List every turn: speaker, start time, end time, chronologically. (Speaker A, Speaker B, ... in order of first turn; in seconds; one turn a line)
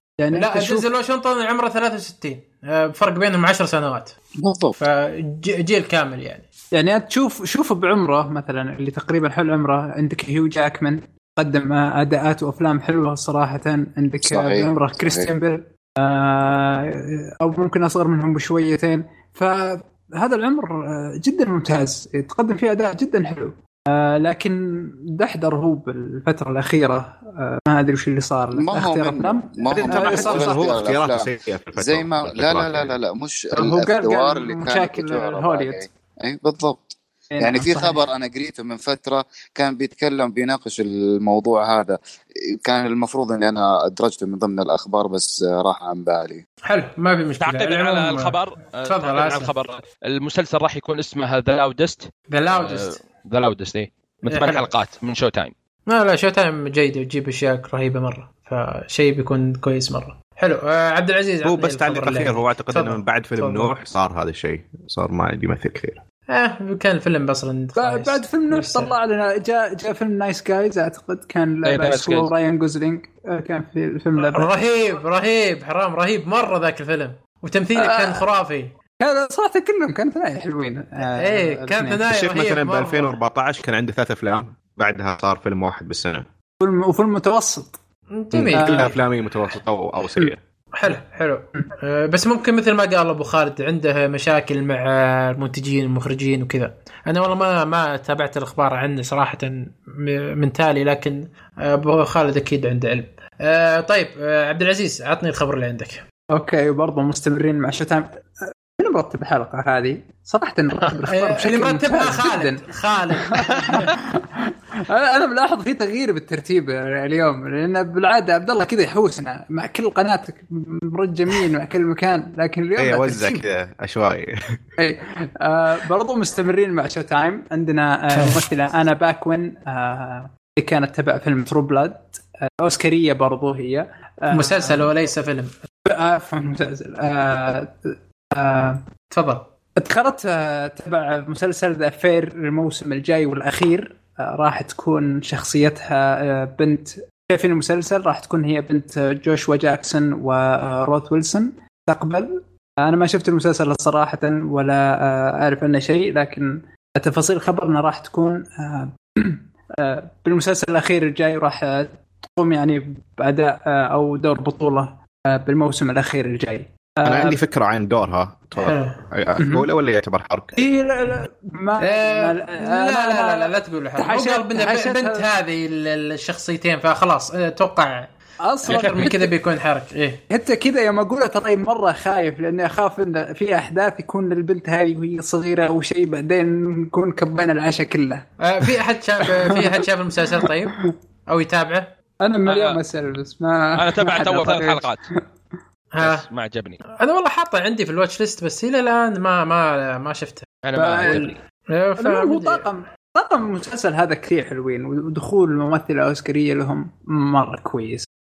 Speaker A: 0.2-0.9
Speaker B: 0.3-4.1
Speaker C: 4.4-4.8
Speaker B: 4.8-6.4
Speaker A: 6.7-30.8
Speaker C: 14.2-15.3
Speaker C: 28.5-42.0
Speaker D: 29.9-33.0
Speaker A: 33.5-35.9
Speaker A: 37.3-38.0
Speaker C: 42.6-46.4
Speaker B: 46.6-49.5
Speaker E: 47.4-55.5
Speaker B: 52.3-53.0
Speaker B: 54.3-54.7
Speaker B: 55.9-63.9
Speaker D: 61.4-66.0
Speaker B: 66.3-68.9
Speaker A: 67.8-74.5
Speaker E: 71.6-72.3
Speaker B: 74.2-78.8
Speaker A: 77.8-78.2
Speaker A: 79.0-82.0
Speaker B: 81.2-83.1
Speaker D: 82.1-86.3
Speaker A: 86.6-87.8
Speaker B: 88.1-89.0
Speaker D: 88.3-90.4
Speaker A: 88.5-88.9
Speaker B: 90.8-106.0
Speaker A: 106.3-123.4
Speaker B: 110.8-113.9
Speaker D: 122.8-124.3
Speaker A: 124.8-134.9
Speaker B: 128.1-128.4
Speaker B: 134.3-135.5
Speaker A: 135.9-138.8
Speaker B: 139.1-139.4
Speaker A: 139.8-152.3
Speaker A: 152.8-167.4
Speaker D: 167.1-170.6
Speaker B: 168.6-169.0
Speaker A: 169.4-169.7
Speaker A: 170.6-175.3
Speaker B: 171.8-178.1
Speaker A: 178.4-179.3
Speaker B: 178.6-180.2
Speaker E: 178.7-179.1
Speaker A: 180.3-188.7
Speaker B: 188.4-191.9
Speaker A: 189.2-189.8
Speaker A: 190.3-190.9
Speaker A: 192.2-195.2
Speaker E: 192.5-192.8
Speaker E: 193.8-195.0
Speaker B: 195.9-196.3
Speaker E: 196.0-196.8
Speaker B: 197.0-202.6
Speaker E: 200.6-201.3
Speaker A: 200.8-201.3
Speaker A: 202.0-208.1